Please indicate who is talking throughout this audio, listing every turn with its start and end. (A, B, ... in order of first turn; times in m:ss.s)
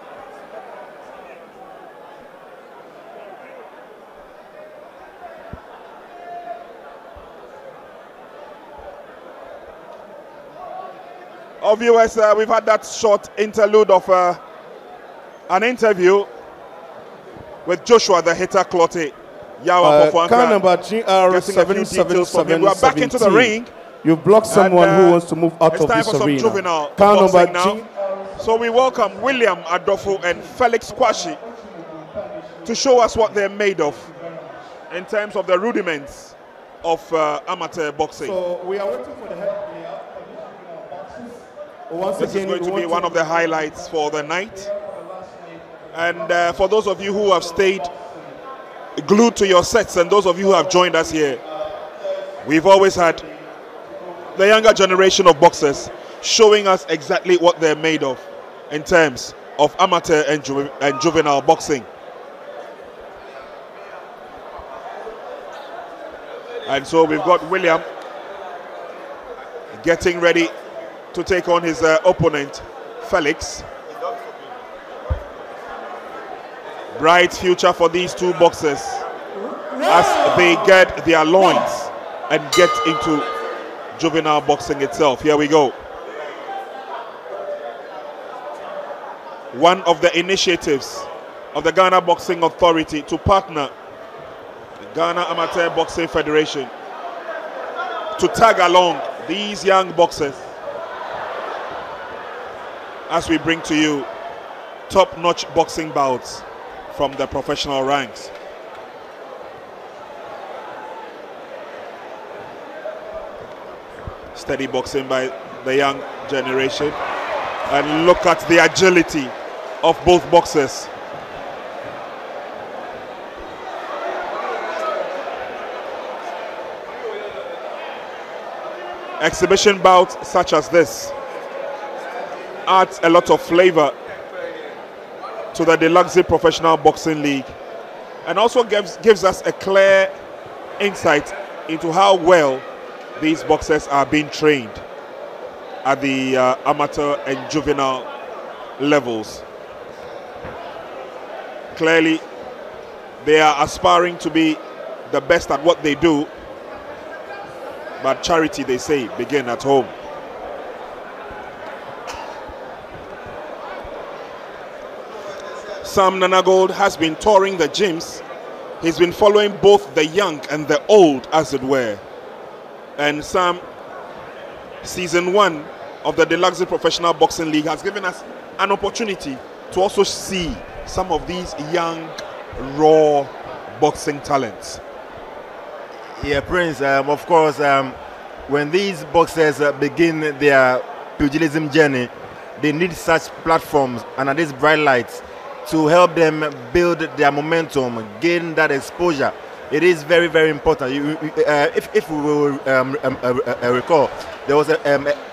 0:11.6-0:14.4 A
0:15.5-0:16.3 A
0:17.6-0:20.6 A
0:19.8-0:29.4 B
0:21.3-0:23.7 A
0:24.5-0:27.8 A
0:28.4-0:31.4 A
0:30.1-0:30.5 B
0:31.0-0:33.4 B
0:32.6-0:34.2 A
0:34.2-0:34.6 B
0:34.9-0:38.4 A
0:38.2-0:45.6 B
0:42.2-0:44.7 A
0:45.9-0:47.9 A
0:47.4-0:48.3 B
0:49.0-0:51.4 A
0:52.4-0:53.3 A
0:54.4-1:01.9 A
1:06.7-1:07.8 A
1:09.7-1:10.5 A
1:11.1-1:13.7 A
1:16.9-1:19.0 A
1:19.8-1:23.3 A
1:24.0-1:25.8 A
1:29.5-1:33.7 A
1:34.8-1:36.7 A
1:38.2-1:40.4 A
1:43.1-1:44.1 A
1:44.9-1:48.3 A
1:54.3-1:57.0 A
1:57.7-2:00.9 A
2:09.2-2:11.1 A
2:12.7-2:14.0 A
2:15.5-2:17.5 A
2:18.2-2:20.1 A
2:20.8-2:22.6 A
2:23.2-2:24.8 A
2:25.8-2:28.1 A
2:28.8-2:29.4 A
2:31.7-2:32.2 A
2:33.2-2:36.3 A
2:38.0-2:39.9 A
2:45.8-2:48.2 A
2:48.8-2:52.0 A
2:53.0-2:53.6 A
2:54.8-3:04.8 A
3:06.2-3:08.0 C
3:08.5-3:25.2 C